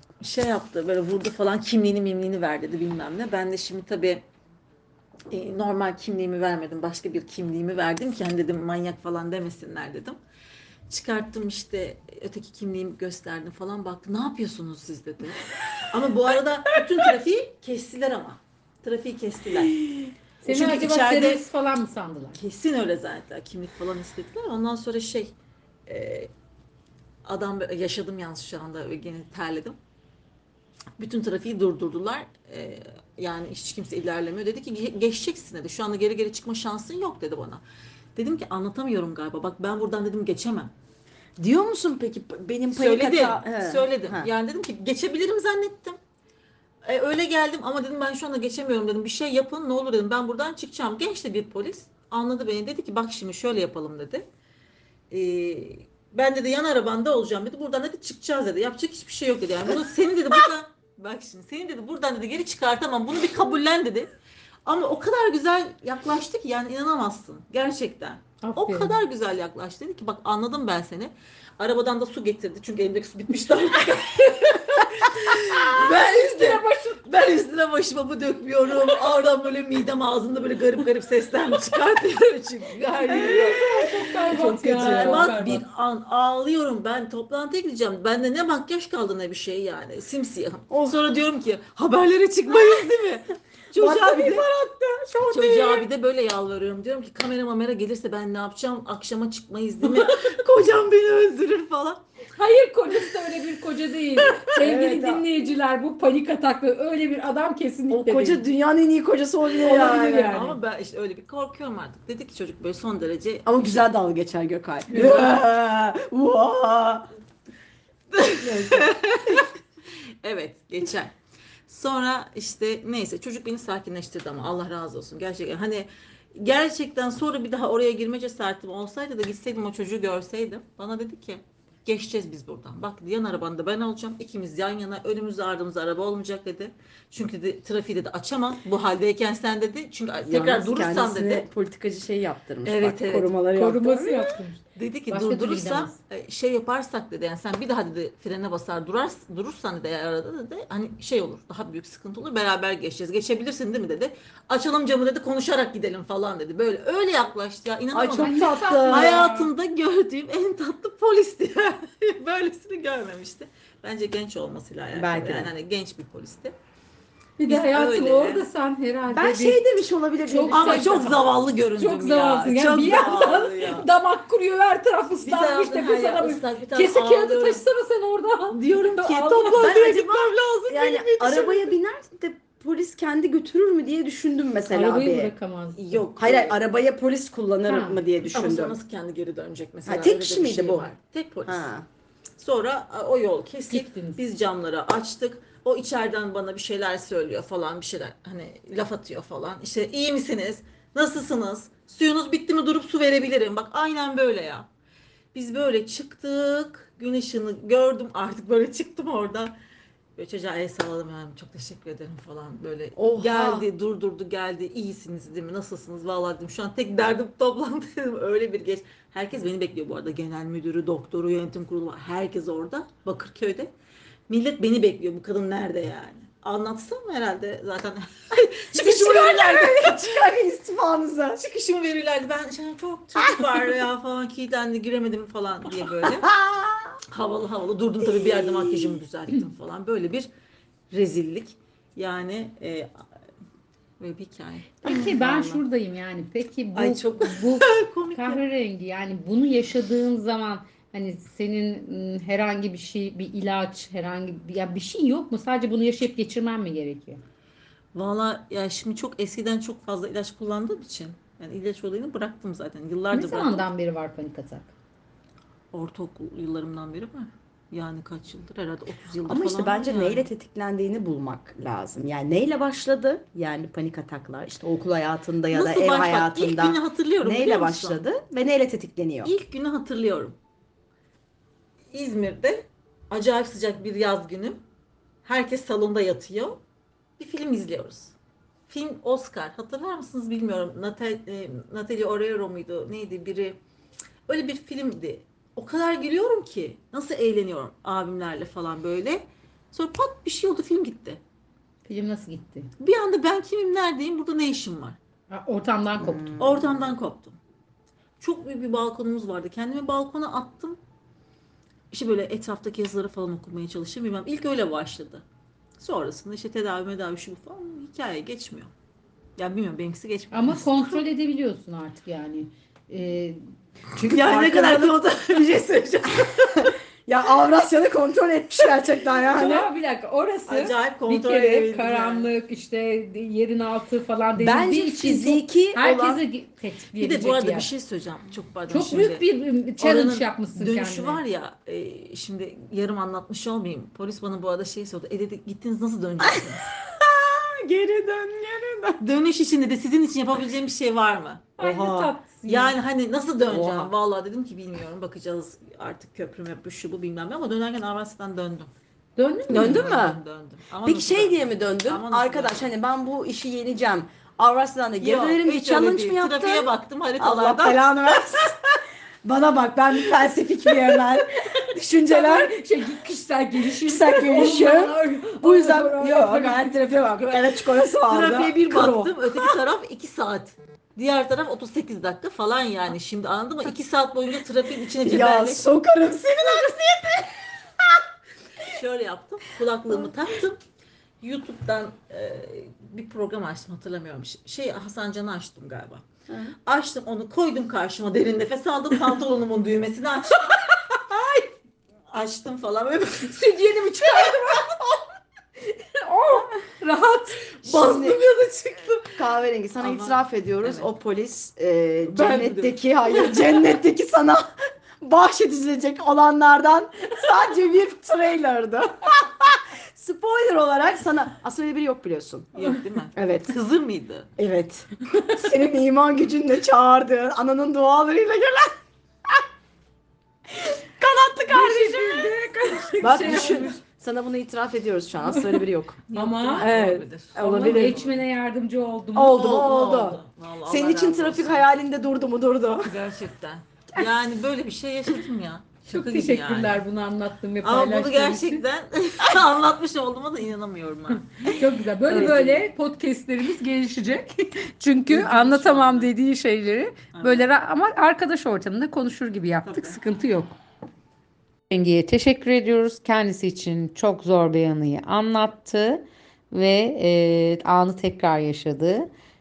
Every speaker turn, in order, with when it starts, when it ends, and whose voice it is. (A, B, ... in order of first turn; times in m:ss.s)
0:00.2-0:04.2 A
0:05.3-0:10.2 A
0:10.9-0:19.8 A
0:20.4-0:22.4 B
0:20.4-0:21.4 A
0:22.4-0:25.3 A
0:25.9-0:26.3 A
0:27.2-0:29.8 A
0:31.0-0:37.6 A
0:38.2-0:40.7 A
0:41.4-0:44.3 C
0:42.7-0:46.0 A
0:46.8-0:54.3 A
0:55.1-1:04.1 A
1:04.7-1:34.5 A
1:08.4-1:09.0 B
1:15.7-1:17.0 B
1:22.8-1:25.6 B
1:23.0-1:25.5 C
1:33.8-1:35.9 C
1:35.3-1:42.0 A
1:42.4-1:48.4 B
1:44.6-1:45.2 C
1:47.9-1:50.4 C
1:49.6-1:50.6 B
1:49.8-1:53.5 A
1:53.4-1:57.1 C
1:54.9-1:55.4 B
1:58.1-1:59.5 A
1:58.3-1:59.4 C
2:00.2-2:01.2 A
2:01.7-2:21.5 A
2:20.3-2:24.4 C
2:22.6-2:23.3 A
2:23.5-2:26.0 B
2:24.8-2:46.5 A
2:37.9-2:39.2 C
2:38.1-2:39.5 B
2:44.9-2:45.5 C
2:47.4-2:49.7 B
2:47.4-2:48.5 A
2:49.1-2:51.3 C
2:50.2-2:51.2 B
2:50.5-2:53.9 A
2:51.7-3:01.7 B
2:55.2-2:57.6 A
2:58.5-3:00.9 A
2:59.5-3:05.3 C
3:04.7-3:05.8 B
3:05.7-3:06.6 A
3:06.1-3:08.8 C
3:07.6-3:08.0 B
3:08.2-3:11.7 A
3:09.8-3:10.9 C
3:11.4-3:11.9 C
3:12.4-3:24.7 A
3:13.7-3:14.2 B
3:25.3-3:29.6 A
3:30.2-3:43.7 A
3:33.0-3:33.7 C
3:44.3-3:50.4 A
3:48.7-3:51.4 C
3:51.4-3:56.3 A
3:53.2-3:53.6 C
3:56.0-3:57.0 C
3:57.1-4:00.3 A
3:58.1-3:58.9 C
4:00.9-4:02.9 A
4:04.0-4:05.0 A
4:04.8-4:17.2 B
4:04.8-4:05.6 C
4:06.8-4:08.4 A
4:17.9-4:23.7 A
4:23.1-4:24.7 B
4:25.7-4:30.3 A
4:29.2-4:39.3 C
4:35.5-4:38.0 A
4:39.2-4:40.4 A
4:41.9-4:44.6 A
4:45.2-4:46.6 A
4:47.2-4:48.2 A
4:48.7-4:53.6 A
4:54.3-5:01.2 A
5:01.8-5:02.7 B
5:02.8-5:05.0 A
5:05.3-5:06.3 B
5:06.1-5:06.9 C
5:06.4-5:07.4 A
5:08.2-5:10.8 A
5:11.9-5:15.2 A
5:15.8-5:18.7 A
5:19.4-5:21.0 A
5:20.3-5:23.4 B
5:24.0-5:26.8 A
5:24.0-5:25.0 C
5:24.2-5:24.5 B
5:26.6-5:29.7 C
5:29.2-5:37.7 B
5:30.5-5:32.3 A
5:34.4-5:36.2 C
5:37.0-5:39.2 A
5:38.7-5:41.2 B
5:39.8-5:46.7 A
5:46.2-5:49.0 C
5:49.0-5:51.7 A
5:51.6-5:52.8 B
5:51.6-5:52.1 C
5:52.4-5:58.7 A
5:53.5-5:53.9 C
5:59.2-5:59.9 B
5:59.5-6:00.2 C
5:59.5-6:02.7 A
6:00.8-6:08.7 C
6:05.0-6:07.9 A
6:09.2-6:12.6 C
6:11.9-6:17.4 B
6:13.8-6:19.6 C
6:18.0-6:25.6 A
6:25.0-6:28.0 C
6:28.7-6:30.6 A
6:31.2-6:36.0 A
6:36.3-6:36.5 C
6:36.6-6:41.5 A
6:42.1-6:44.6 A
6:43.4-6:44.9 B
6:45.9-6:47.4 B
6:47.6-6:49.2 A
6:47.6-6:48.2 C
6:49.2-6:54.5 C
6:49.8-6:50.9 A
6:52.0-6:53.6 A
6:55.0-7:02.5 C
7:02.5-7:04.3 A
7:03.2-7:03.6 C
7:04.4-7:08.7 C
7:11.0-7:12.4 C
7:11.5-7:13.7 B
7:13.0-7:16.0 C
7:15.2-7:16.7 B
7:16.1-7:18.2 A
7:16.6-7:18.0 C
7:17.4-7:19.6 B
7:19.2-7:22.9 C
7:19.3-7:21.7 A
7:22.8-7:26.8 A
7:25.9-7:28.6 B
7:27.6-7:31.4 A
7:31.4-7:40.6 B
7:32.1-7:32.6 C
7:32.1-7:32.6 A
7:35.1-7:36.1 A
7:37.1-7:37.5 A
7:39.6-7:40.0 A
7:41.7-7:49.1 B